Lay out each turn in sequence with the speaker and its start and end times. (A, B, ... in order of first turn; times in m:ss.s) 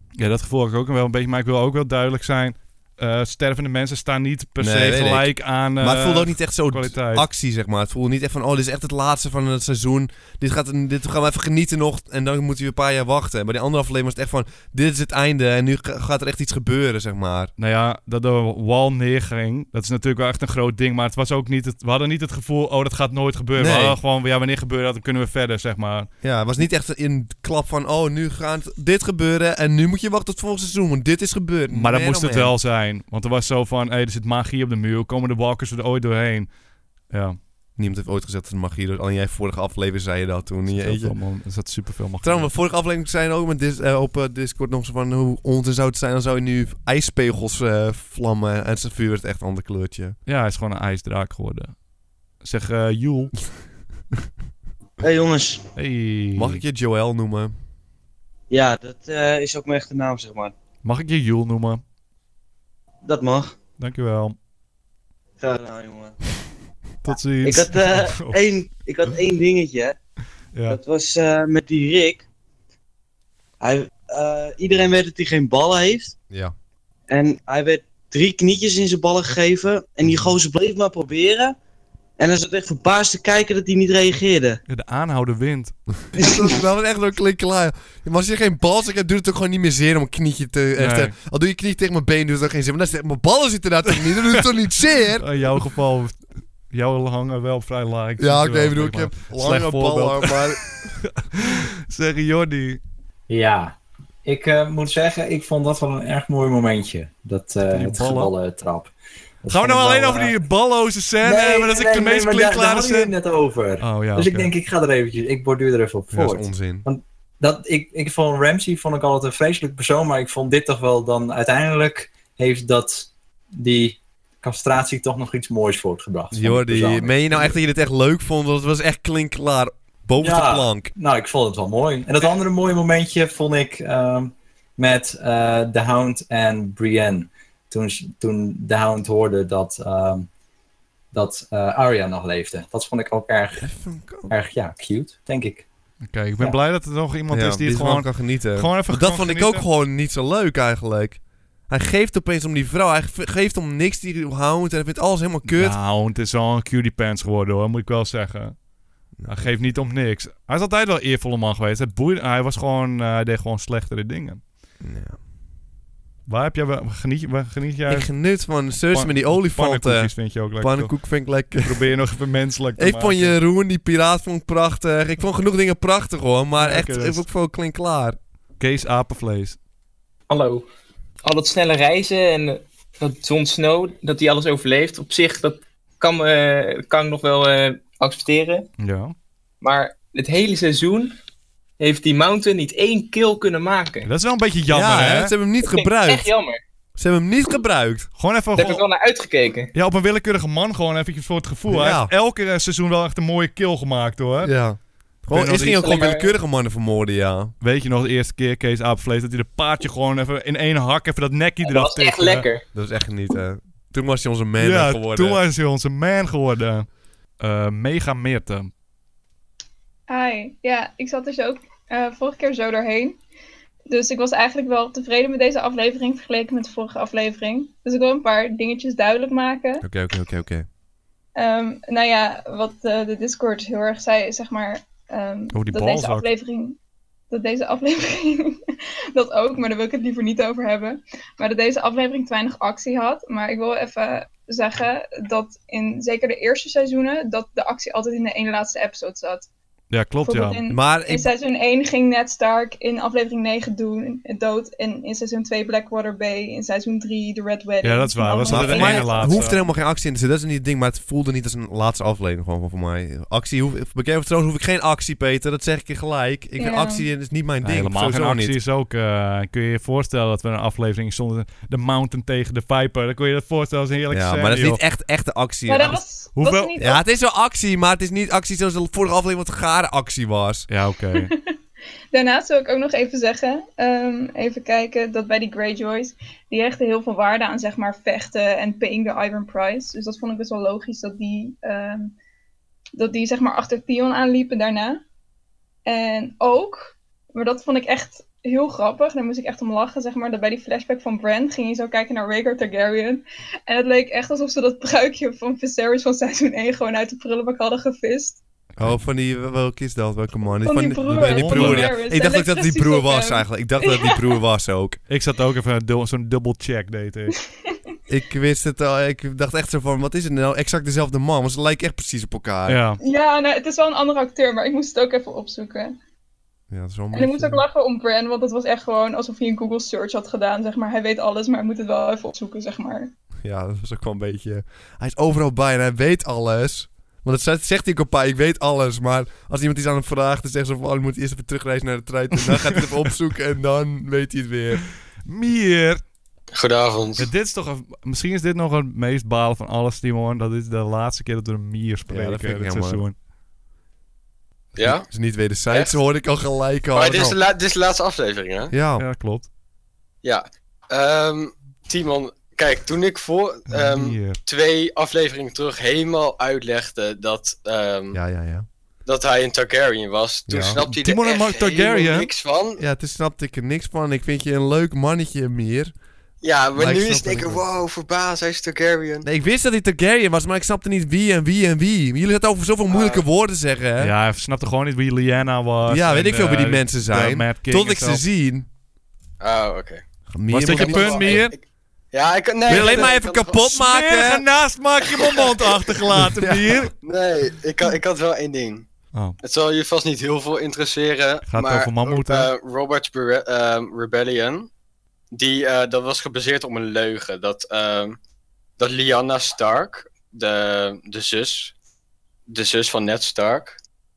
0:00.2-0:07.3 A
0:04.6-0:17.5 B
0:17.6-0:26.1 A
0:23.6-0:24.0 B
0:26.2-0:32.6 B
0:31.7-0:36.5 A
0:37.1-0:37.4 A
0:37.8-0:41.2 B
0:40.7-0:42.5 A
0:42.2-0:50.2 B
0:50.3-0:51.8 A
0:52.4-0:53.3 A
0:55.0-0:55.6 C
0:55.8-0:56.6 A
0:56.4-0:57.5 B
0:58.5-1:00.5 C
1:00.8-1:01.8 A
1:03.0-1:03.6 C
1:03.8-1:04.4 A
1:05.4-1:06.2 C
1:07.0-1:08.4 A
1:07.4-1:10.0 C
1:10.7-1:12.2 C
1:13.6-1:16.1 C
1:17.1-1:21.6 C
1:22.2-1:24.6 C
1:24.7-1:25.7 A
1:26.2-1:35.3 B
1:30.8-1:31.1 A
1:34.2-1:34.4 A
1:35.2-1:36.2 A
1:36.7-1:40.5 A
1:38.2-1:40.6 B
1:41.2-1:42.8 A
1:43.3-1:43.7 D
1:44.2-1:48.9 D
1:47.7-1:48.3 A
1:49.4-1:50.4 D
1:49.5-1:53.1 A
1:51.2-2:07.6 D
1:53.8-1:54.5 A
1:56.1-1:56.9 B
2:06.3-2:10.9 B
2:10.2-2:20.3 D
2:21.1-2:23.7 D
2:23.6-2:24.3 B
2:24.3-2:25.6 D
2:26.0-2:29.7 A
2:27.3-2:35.8 B
2:35.5-2:38.6 A
2:39.2-2:39.4 B
2:39.3-2:44.4 A
2:44.8-2:45.2 B
2:46.3-2:48.1 A
2:47.9-2:51.9 B
2:48.9-2:51.0 A
2:51.6-2:53.4 A
2:52.8-2:58.2 B
2:56.6-2:57.2 A
2:58.6-2:59.6 A
3:00.3-3:00.7 E
3:01.2-3:08.7 E
3:08.8-3:09.1 A
3:09.6-3:11.1 E
3:11.8-3:14.1 E
3:14.0-3:15.3 A
3:14.7-3:16.3 B
3:15.7-3:16.6 E
3:17.0-3:18.1 B
3:18.2-3:18.8 A
3:18.6-3:19.7 E
3:19.7-3:24.5 A
3:21.7-3:22.1 B
3:24.4-3:27.5 B
3:25.3-3:26.0 A
3:25.7-3:26.3 E
3:27.6-3:32.5 A
3:31.6-3:32.6 E
3:32.7-3:35.4 B
3:34.6-3:36.9 A
3:37.4-3:38.7 A
3:40.1-3:43.2 F
3:43.9-3:49.8 F
3:49.8-3:50.7 B
3:51.4-3:56.8 F
3:55.5-3:56.3 A
3:57.3-3:58.6 F
3:59.1-4:09.5 F
4:09.9-4:10.6 A
4:10.2-4:19.5 F
4:10.7-4:11.3 B
4:17.8-4:19.6 A
4:18.5-4:28.6 B
4:26.6-4:27.1 F
4:27.6-4:34.8 A
4:34.1-4:36.0 B
4:35.7-4:37.0 F
4:36.4-4:36.7 A
4:36.8-4:40.7 B
4:40.7-4:41.3 A
4:42.1-4:52.1 F
4:53.0-4:55.0 F
4:55.9-5:08.4 F
5:08.8-5:15.0 B
5:10.6-5:14.4 F
5:11.2-5:11.9 A
5:15.1-5:17.4 A
5:18.1-5:22.8 B
5:22.7-5:23.0 A
5:23.0-5:26.0 F
5:26.7-5:27.6 B
5:27.1-5:33.1 F
5:33.4-5:44.8 B
5:42.6-5:42.8 A
5:45.3-5:46.0 A
5:46.5-5:47.3 G
5:47.2-5:53.2 A
5:52.1-5:53.0 B
5:54.8-5:55.1 G
5:54.8-5:57.4 B
5:56.9-5:58.7 G
5:58.7-5:59.0 B
5:59.0-5:59.5 A
6:00.2-6:08.2 G
6:03.7-6:04.4 A
6:08.1-6:08.7 B
6:09.1-6:12.8 G
6:10.5-6:10.8 B
6:10.8-6:12.3 A
6:12.8-6:15.9 B
6:16.4-6:19.2 G
6:16.8-6:17.6 B
6:19.2-6:24.1 B
6:22.9-6:23.2 G
6:24.0-6:28.2 A
6:25.9-6:28.7 B
6:29.4-6:30.0 G
6:30.3-6:31.4 B
6:30.5-6:31.5 A
6:30.6-6:31.6 G
6:32.1-6:33.7 G
6:32.7-6:34.4 B
6:32.7-6:36.9 A
6:35.1-6:35.8 G
6:36.1-6:36.8 B
6:37.0-6:38.9 G
6:39.4-6:44.7 G
6:41.4-6:42.5 A
6:45.3-6:48.2 G
6:48.8-6:51.7 G
6:52.5-6:53.8 G